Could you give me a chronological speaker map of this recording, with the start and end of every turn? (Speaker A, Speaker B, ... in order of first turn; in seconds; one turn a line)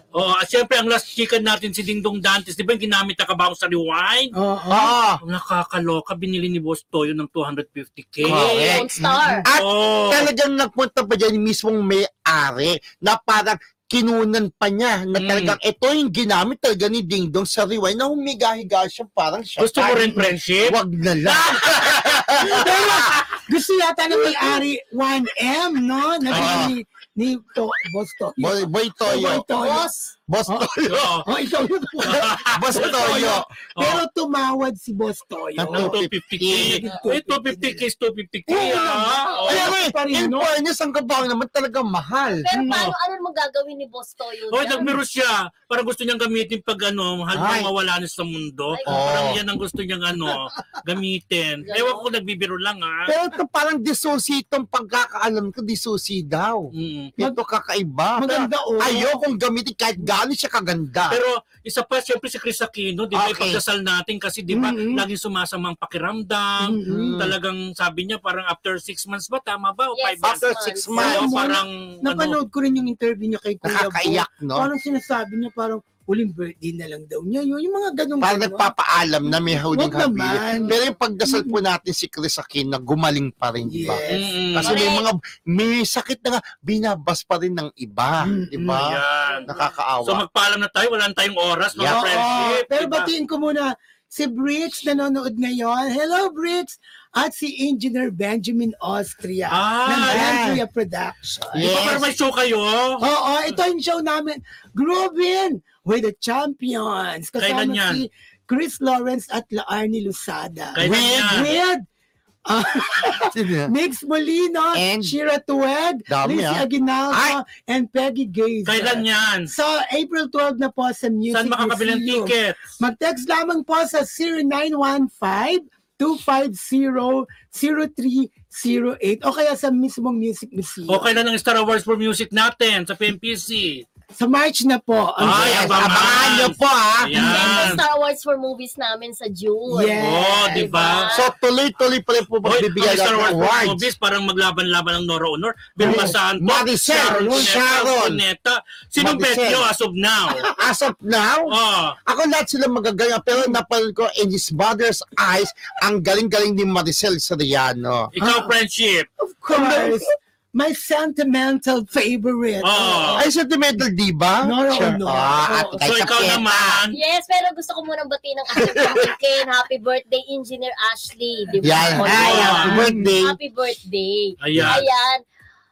Speaker A: 0.1-4.3
Speaker B: 4.4-4.9
Speaker C: 4.7-5.2
Speaker A: 5.2-8.8
Speaker D: 8.2-9.4
Speaker C: 8.2-23.2
Speaker B: 9.0-9.4
Speaker A: 9.5-10.3
Speaker A: 15.2-15.6
Speaker A: 19.6-22.4
Speaker B: 22.4-36.0
Speaker A: 26.3-26.7
Speaker C: 26.3-26.7
Speaker C: 28.4-31.2
Speaker A: 30.9-31.3
Speaker A: 32.0-34.0
Speaker C: 32.0-33.5
Speaker C: 35.6-36.8
Speaker A: 35.7-39.7
Speaker B: 36.5-37.8
Speaker B: 38.5-40.5
Speaker C: 39.5-42.5
Speaker D: 42.3-45.0
Speaker B: 42.5-42.9
Speaker A: 42.7-42.9
Speaker A: 44.5-53.1
Speaker C: 47.3-47.7
Speaker D: 48.7-49.3
Speaker C: 48.9-49.4
Speaker D: 51.6-52.1
Speaker C: 53.0-61.2
Speaker A: 56.8-57.1
Speaker B: 58.2-59.1
Speaker A: 61.1-72.4
Speaker C: 63.1-63.6
Speaker B: 64.5-65.0
Speaker B: 66.6-67.1
Speaker C: 66.9-67.3
Speaker D: 70.0-71.0
Speaker C: 70.2-71.3
Speaker B: 71.0-78.7
Speaker C: 73.6-74.7
Speaker C: 78.2-90.2
Speaker B: 79.3-81.6
Speaker B: 83.7-84.4
Speaker A: 84.1-84.8
Speaker D: 84.6-85.1
Speaker B: 88.2-88.9
Speaker A: 88.8-89.5
Speaker D: 89.1-89.7
Speaker A: 90.0-93.1
Speaker C: 91.7-92.5
Speaker B: 91.9-101.7
Speaker A: 99.5-100.3
Speaker C: 100.0-100.6
Speaker C: 101.5-102.1
Speaker A: 101.6-103.0
Speaker B: 103.0-110.8
Speaker A: 107.4-108.0
Speaker A: 110.7-111.5
Speaker C: 110.8-111.5
Speaker B: 111.3-111.8
Speaker B: 112.5-131.1
Speaker C: 112.8-113.7
Speaker C: 114.7-115.2
Speaker C: 116.1-117.4
Speaker A: 118.6-119.5
Speaker A: 121.3-122.7
Speaker A: 130.9-133.8
Speaker B: 134.2-135.9
Speaker A: 135.2-137.8
Speaker C: 135.2-137.2
Speaker B: 137.1-137.8
Speaker D: 137.2-141.3
Speaker B: 139.7-140.8
Speaker A: 139.9-141.1
Speaker C: 141.1-143.8
Speaker A: 142.4-150.5
Speaker B: 145.8-146.2
Speaker C: 145.8-148.2
Speaker B: 147.0-147.5
Speaker C: 149.0-149.7
Speaker C: 150.3-151.5
Speaker A: 151.5-152.0
Speaker C: 152.1-158.1
Speaker A: 158.1-159.1
Speaker B: 158.2-158.5
Speaker B: 159.2-163.3
Speaker C: 159.5-160.0
Speaker A: 162.6-163.2
Speaker C: 163.2-166.8
Speaker B: 164.4-166.4
Speaker A: 165.8-166.9
Speaker D: 166.9-175.2
Speaker C: 168.6-169.1
Speaker C: 171.6-173.4
Speaker B: 171.7-173.1
Speaker A: 172.1-172.9
Speaker A: 174.4-174.8
Speaker C: 174.5-174.8